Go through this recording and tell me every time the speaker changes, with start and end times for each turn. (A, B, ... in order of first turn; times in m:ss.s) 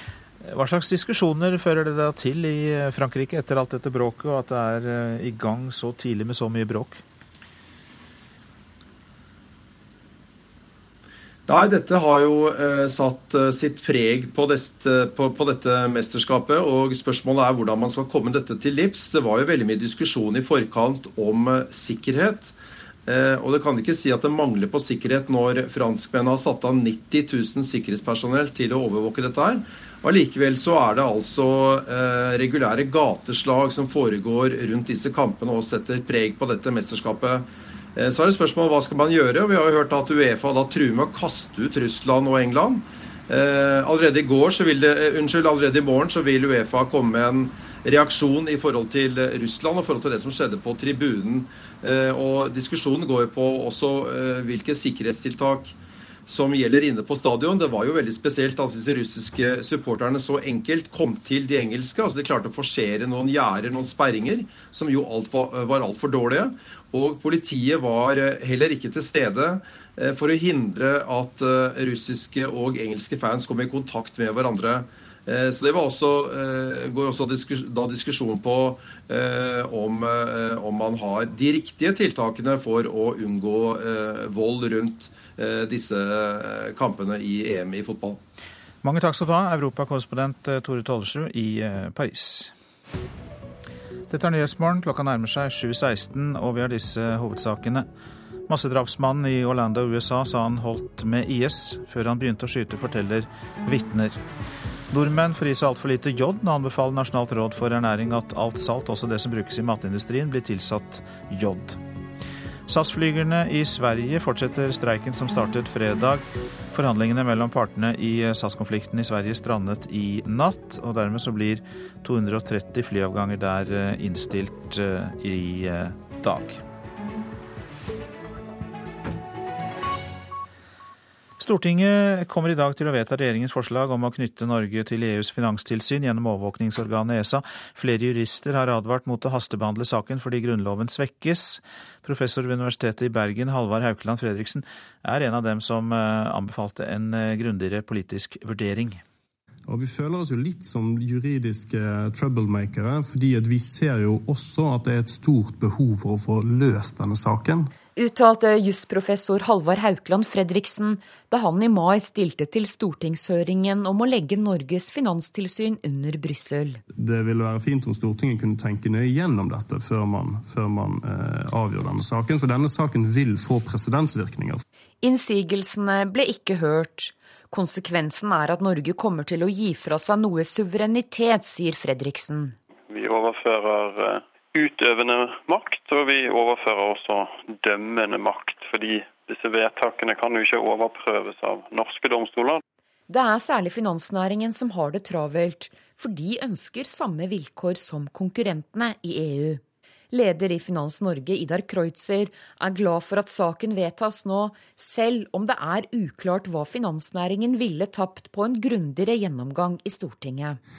0:00.4-0:07.0 A
0:11.5-0:22.5 B
0:23.1-0:55.8 B
0:56.3-1:28.2 B
1:28.8-1:32.5 A
1:34.1-1:37.8 A
1:38.5-1:44.2 A
1:44.9-1:51.8 A
1:52.7-2:06.6 A
2:11.4-2:29.0 A
2:29.7-2:37.7 C
2:38.0-2:46.8 D
2:46.9-2:54.6 C
2:55.0-3:02.5 D
3:02.9-3:12.6 E
3:13.1-3:30.6 D